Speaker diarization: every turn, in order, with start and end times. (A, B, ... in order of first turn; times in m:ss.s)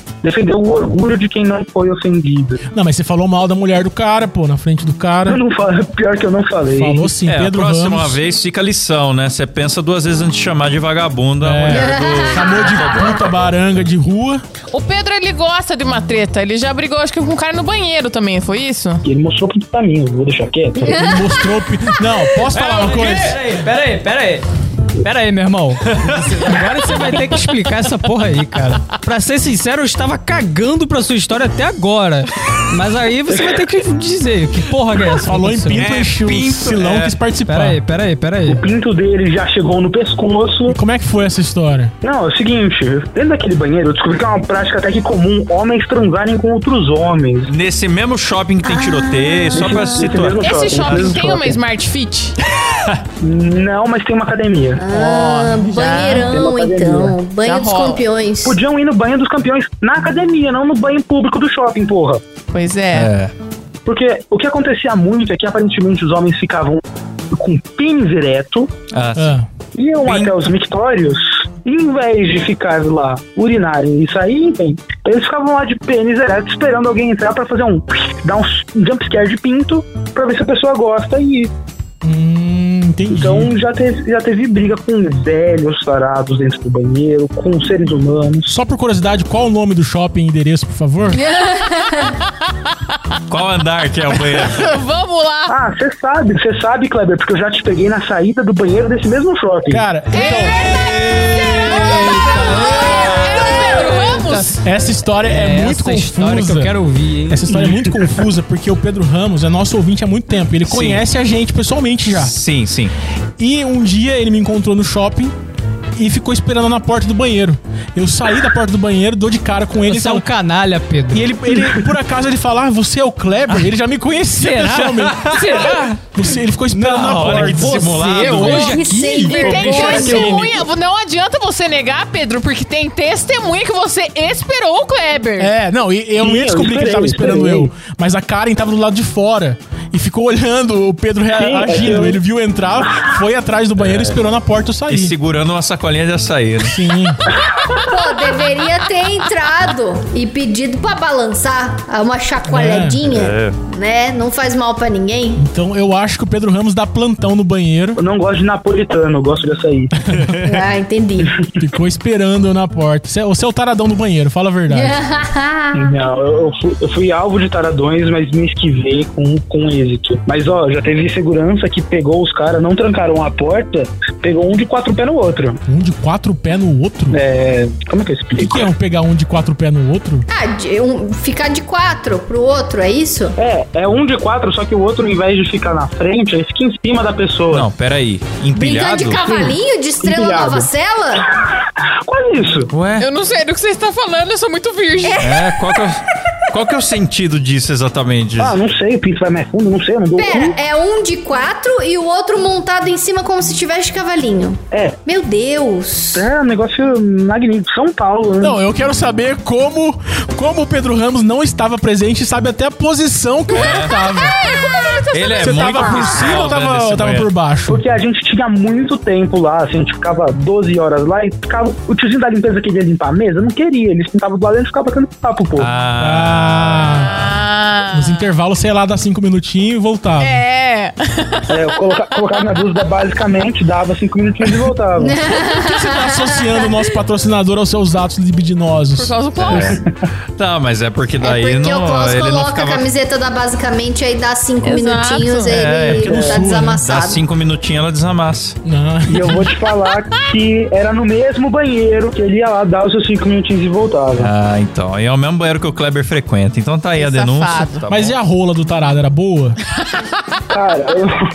0:00.2-0:02.6 A
0:02.7-0:05.4 B
0:05.3-0:07.1 A
0:06.7-0:08.2 B
0:07.2-0:13.1 C
0:11.4-0:14.4 B
0:11.7-0:13.2 D
0:14.7-0:19.0 E
0:19.0-0:21.2 A
0:20.8-0:21.2 D
0:20.9-0:23.4 B
0:22.5-0:24.0 C
0:23.4-0:35.9 F
0:25.8-0:27.0 C
0:33.3-0:33.6 A
0:35.2-0:37.8 B
0:35.7-0:37.2 C
0:37.4-0:38.6 F
0:38.4-0:40.8 A
0:40.7-0:41.9 B
0:42.0-0:47.5 A
0:47.5-0:51.2 C
0:48.6-0:50.1 D
0:49.5-0:51.6 A
0:50.4-0:52.4 E
0:52.6-0:53.0 C
0:53.2-0:54.9 A
0:54.8-0:58.6 D
0:54.9-0:56.3 E
0:56.1-0:57.2 A
0:57.4-0:58.0 E
0:58.4-1:02.2 A
1:02.5-1:03.1 E
1:02.9-1:03.3 C
1:03.9-1:06.8 A
1:07.3-1:08.7 A
1:08.9-1:09.4 C
1:09.2-1:09.5 B
1:09.8-1:21.5 A
1:10.1-1:10.3 C
1:22.0-1:23.5 B
1:23.1-1:28.5 A
1:28.5-1:31.2 B
1:31.1-1:32.2 D
1:33.3-1:34.7 C
1:34.5-1:35.5 E
1:35.5-1:39.9 A
1:39.7-1:40.8 B
1:40.1-1:44.6 E
1:41.7-1:47.5 F
1:41.7-1:42.2 B
1:42.9-1:43.4 C
1:44.6-1:46.7 B
1:47.3-1:52.4 B
1:47.5-1:47.9 A
1:50.7-1:51.0 C
1:52.1-1:52.9 C
1:53.4-1:55.4 B
1:56.0-2:00.3 B
1:59.8-2:01.3 F
2:01.1-2:10.4 B
2:04.4-2:05.0 F
2:04.8-2:06.0 C
2:05.4-2:05.8 E
2:06.7-2:09.4 F
2:07.0-2:08.8 C
2:08.6-2:10.6 D
2:09.4-2:10.5 C
2:09.4-2:15.5 E
2:15.4-2:25.2 B
2:16.2-2:17.7 A
2:21.3-2:22.2 A
2:23.8-2:24.2 C
2:24.9-2:26.8 C
2:26.6-2:27.2 B
2:27.8-2:35.4 D
2:32.5-2:33.0 B
2:33.0-2:33.6 C
2:35.4-2:38.0 B
2:38.0-2:39.9 A
2:40.0-2:40.4 B
2:40.2-2:40.6 C
2:40.4-2:41.3 D
2:41.6-2:45.0 B
2:44.7-2:45.9 D
2:45.7-2:55.6 A
2:55.7-2:57.2 B
2:57.1-2:58.7 A
2:58.4-3:00.3 B
3:00.3-3:03.4 D
3:03.4-3:07.7 A
3:07.5-3:09.2 C
3:08.5-3:11.3 D
3:09.2-3:10.7 A
3:12.0-3:12.7 A
3:12.7-3:13.1 C
3:13.0-3:15.3 E
3:15.0-3:15.8 D
3:15.2-3:18.6 C
3:18.4-3:20.6 A
3:20.2-3:26.3 D
3:24.7-3:25.0 A
3:26.1-3:28.6 A
3:28.4-3:34.4 B
3:33.5-3:34.0 C
3:33.5-3:35.7 E
3:35.1-3:37.3 C
3:35.4-3:37.8 B
3:37.7-3:45.7 A
3:45.6-3:47.2 C
3:46.0-3:47.1 B
3:47.2-3:48.3 E
3:47.9-3:50.4 B
3:50.2-3:51.5 E
3:51.5-3:55.2 A
3:55.0-3:56.7 D
3:55.4-3:59.6 B
3:58.9-3:59.8 E
3:59.4-3:59.8 C
3:59.7-4:00.0 A
4:00.4-4:02.9 C
4:01.2-4:07.2 D
4:04.6-4:05.8 E
4:05.5-4:06.1 C
4:05.9-4:06.8 B
4:06.1-4:06.4 A
4:06.7-4:08.6 C
4:08.6-4:09.5 B
4:09.1-4:14.3 A
4:14.2-4:18.2 C
4:17.0-4:17.9 E
4:17.9-4:19.6 B
4:20.5-4:21.2 A